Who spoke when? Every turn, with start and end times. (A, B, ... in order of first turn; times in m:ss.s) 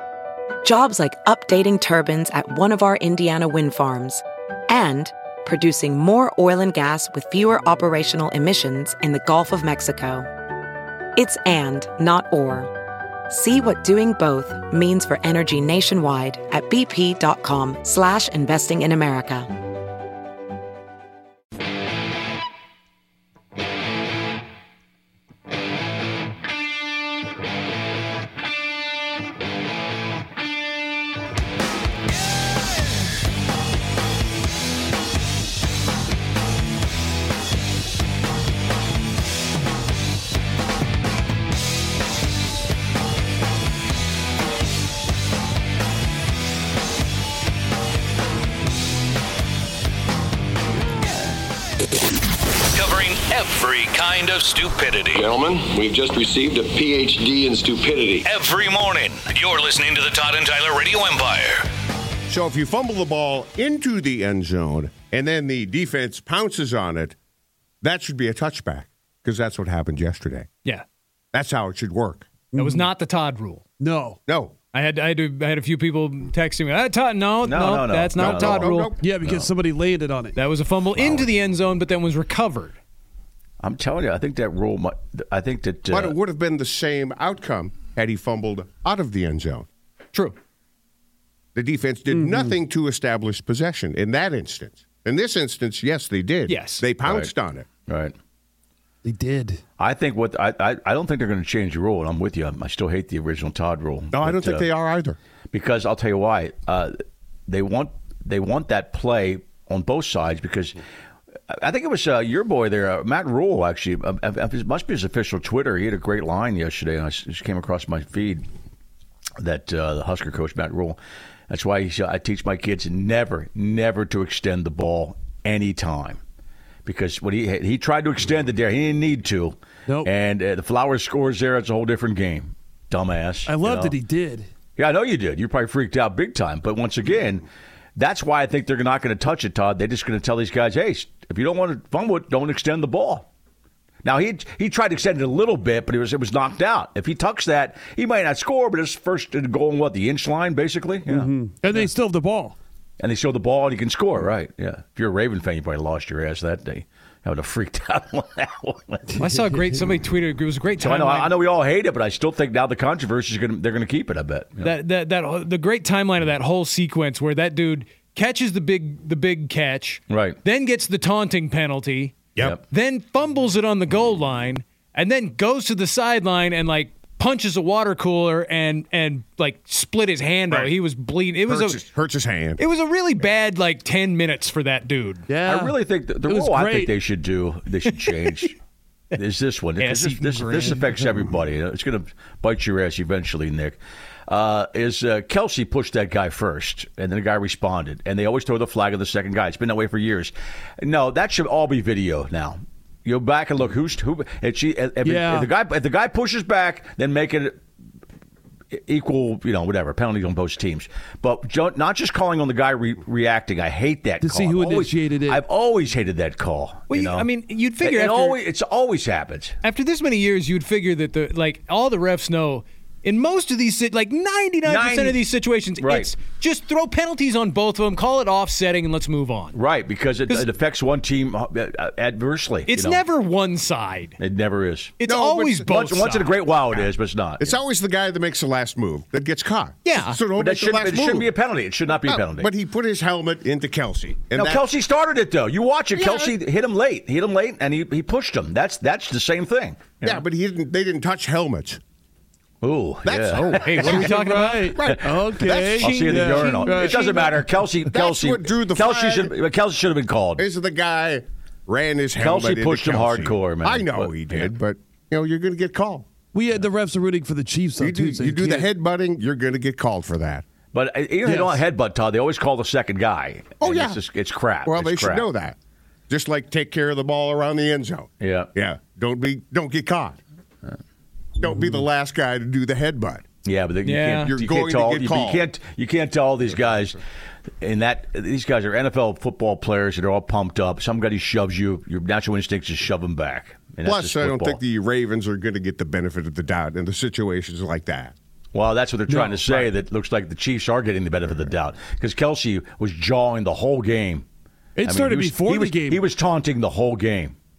0:00.6-0:10.3 A
0:11.2-0:12.7 A
0:13.3-0:19.5 A
0:52.7-0:55.1 B
0:55.1-0:58.3 C
0:58.3-1:01.6 B
1:02.3-1:07.2 D
1:07.8-1:10.5 D
1:11.3-1:12.3 D
1:12.5-1:12.9 E
1:12.6-1:13.6 F
1:13.8-1:14.2 E
1:14.3-1:14.5 D
1:14.7-1:18.9 F
1:17.4-1:19.5 G
1:18.2-1:19.0 D
1:19.0-1:20.4 E
1:20.4-1:22.8 F
1:21.0-1:21.3 G
1:23.6-1:26.2 G
1:25.9-1:29.7 D
1:31.5-1:37.7 D
1:32.1-1:32.5 E
1:36.5-1:36.8 F
1:37.0-1:37.3 G
1:37.9-1:38.1 G
1:39.0-1:39.6 E
1:39.8-1:44.7 G
1:44.1-1:45.2 D
1:45.5-1:47.0 G
1:47.5-1:50.8 G
1:51.5-1:58.4 G
1:59.4-2:06.2 G
2:06.8-2:14.0 G
2:09.9-2:10.1 E
2:13.4-2:14.5 E
2:14.8-2:23.3 G
2:24.0-2:31.8 G
2:31.0-2:32.6 E
2:33.0-2:39.2 G
2:39.2-2:41.4 F
2:40.8-2:44.8 G
2:44.6-3:01.8 F
2:50.1-2:50.4 G
3:00.5-3:00.7 D
3:01.4-3:02.6 D
3:02.6-3:05.3 F
3:05.3-3:06.9 E
3:05.4-3:08.6 G
3:09.1-3:27.6 G
3:09.8-3:10.9 F
3:25.0-3:25.5 E
3:28.7-3:37.3 G
3:34.2-3:35.4 E
3:36.9-3:38.4 F
3:37.8-3:39.6 G
3:39.6-3:49.6 F
3:44.6-3:46.1 G
3:49.5-3:53.0 G
3:52.7-3:54.2 F
3:54.2-3:55.0 G
3:55.0-3:56.7 F
3:55.0-3:55.8 D
3:55.7-3:57.6 G
3:57.4-4:01.3 D
3:59.8-4:00.2 F
4:00.4-4:02.5 G
4:02.0-4:04.6 D
4:04.3-4:10.2 G
4:05.9-4:06.3 D
4:10.0-4:11.8 D
4:12.6-4:13.8 G
4:13.0-4:16.0 D
4:13.3-4:14.8 F
4:13.9-4:17.4 E
4:15.8-4:17.3 F
4:15.8-4:20.4 G
4:17.8-4:19.4 D
4:20.4-4:26.1 D
4:22.2-4:24.5 G
4:26.3-4:28.7 E
4:27.8-4:30.4 D
4:30.7-4:35.3 G
4:31.2-4:31.6 E
4:33.6-4:34.0 D
4:34.6-4:35.6 D
4:36.1-4:40.2 D
4:38.2-4:38.5 G
4:41.4-4:43.2 D
4:41.5-4:41.8 E
4:43.4-4:47.0 G
4:43.8-4:44.3 F
4:44.3-4:45.5 D
4:46.6-4:46.9 D
4:47.6-4:54.6 G
4:53.8-4:58.1 D
4:58.5-5:04.2 G
4:59.1-4:59.7 E
5:04.8-5:06.0 E
5:04.8-5:07.4 G